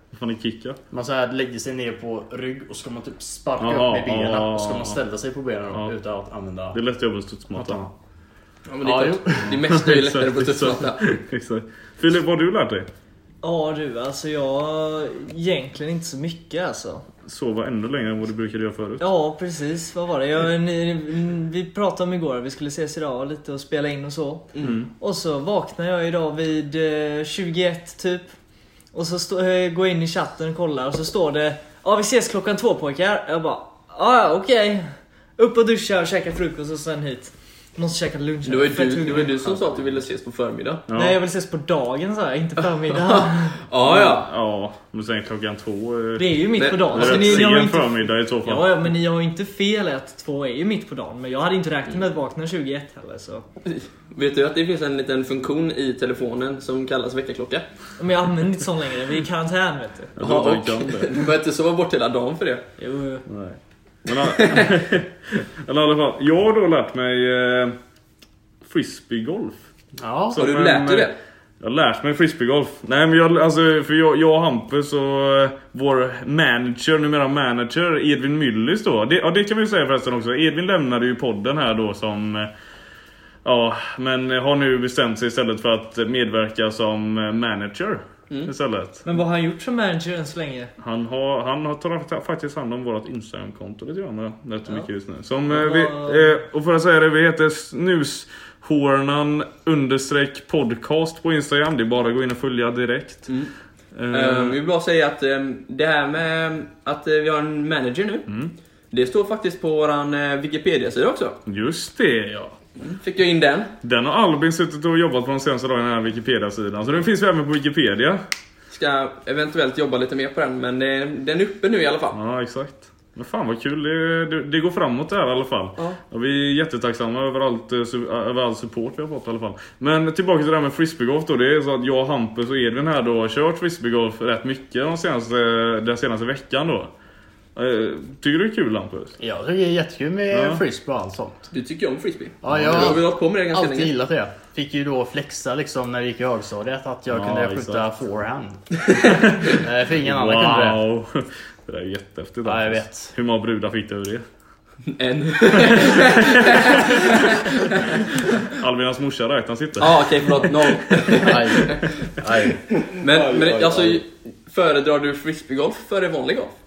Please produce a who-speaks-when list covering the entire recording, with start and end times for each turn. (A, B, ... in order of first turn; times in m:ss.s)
0:00.1-0:00.8 A
0:00.9-0:06.8 B
0:03.6-0:05.0 A
0:06.7-0:07.9 A
0:07.6-0:07.9 B
0:08.7-0:11.0 C
0:08.8-0:09.6 B
0:09.5-0:12.9 A
0:13.4-0:17.0 D
0:17.2-0:19.1 A
0:19.0-0:28.3 D
0:24.6-0:24.9 A
0:28.9-0:39.3 D
0:38.5-0:40.8 C
0:40.9-0:41.2 A
0:40.9-0:43.6 D
0:42.9-0:44.3 C
0:43.8-0:46.4 A
0:46.2-0:53.4 D
0:46.6-0:47.5 C
0:46.9-0:48.8 A
0:53.7-0:57.7 C
0:58.0-1:00.1 D
1:00.2-1:01.2 A
1:00.2-1:02.6 C
1:02.8-1:03.3 D
1:03.3-1:07.8 A
1:04.4-1:04.7 C
1:08.6-1:09.6 A
1:10.0-1:10.5 B
1:10.3-1:22.5 A
1:10.4-1:11.2 C
1:23.4-1:29.0 A
1:29.0-1:30.7 D
1:30.8-1:43.3 A
1:35.5-1:36.4 D
1:44.0-1:44.6 A
1:44.1-1:48.3 C
1:48.3-1:48.5 A
1:48.9-1:51.4 C
1:51.5-1:52.6 A
1:52.8-1:53.7 C
1:53.8-1:58.2 A
1:58.7-2:02.2 C
2:02.1-2:16.9 A
2:17.6-2:19.2 A
2:19.2-2:21.5 B
2:20.3-2:20.6 A
2:21.5-2:23.9 C
2:22.4-2:28.8 B
2:22.5-2:22.9 A
2:27.1-2:27.8 A
2:29.1-2:34.2 A
2:29.4-2:30.9 B
2:32.4-2:33.1 B
2:34.9-2:38.0 C
2:35.5-2:40.8 A
2:39.8-2:46.6 C
2:41.2-2:42.6 B
2:43.0-2:44.0 A